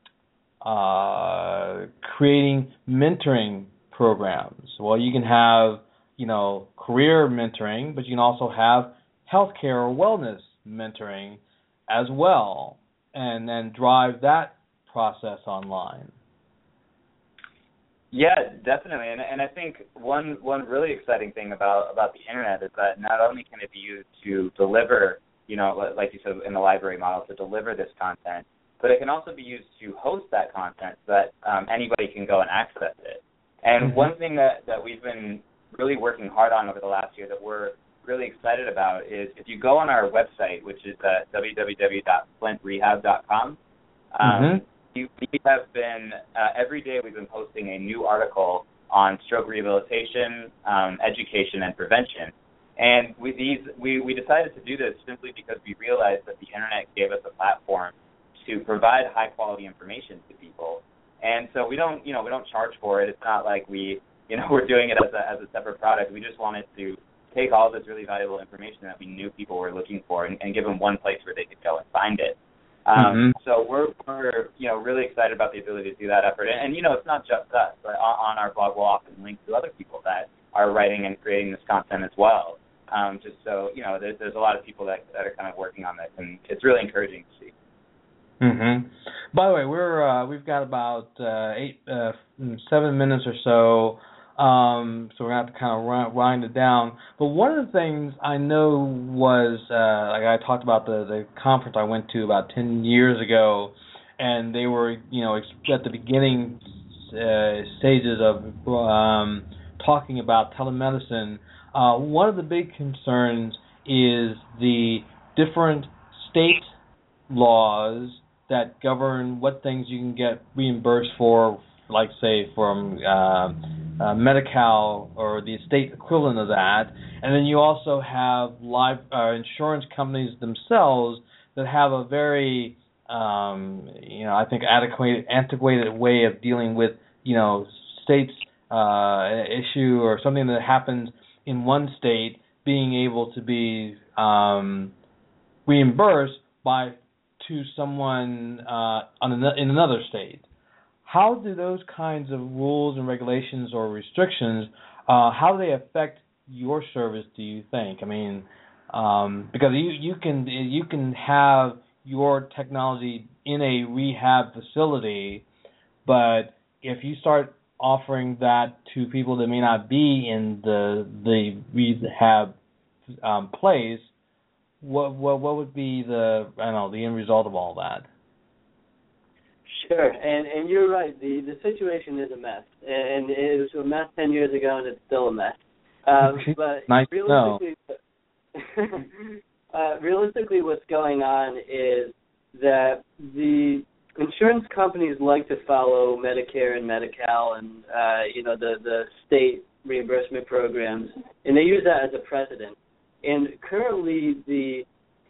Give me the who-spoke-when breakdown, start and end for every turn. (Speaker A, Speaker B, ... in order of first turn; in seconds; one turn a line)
Speaker A: 0.6-16.1
Speaker B: 18.1-43.6
Speaker A: 33.8-34.1
Speaker B: 44.1-87.5
Speaker A: 44.2-44.6
Speaker A: 73.0-73.3
Speaker A: 88.4-116.7
Speaker A: 117.3-144.9
Speaker A: 145.7-150.4
Speaker A: 151.0-165.4
Speaker A: 166.0-172.5
Speaker A: 173.2-174.1
Speaker A: 174.8-178.1
Speaker C: 179.7-187.9
Speaker A: 186.2-187.6
Speaker C: 188.6-204.8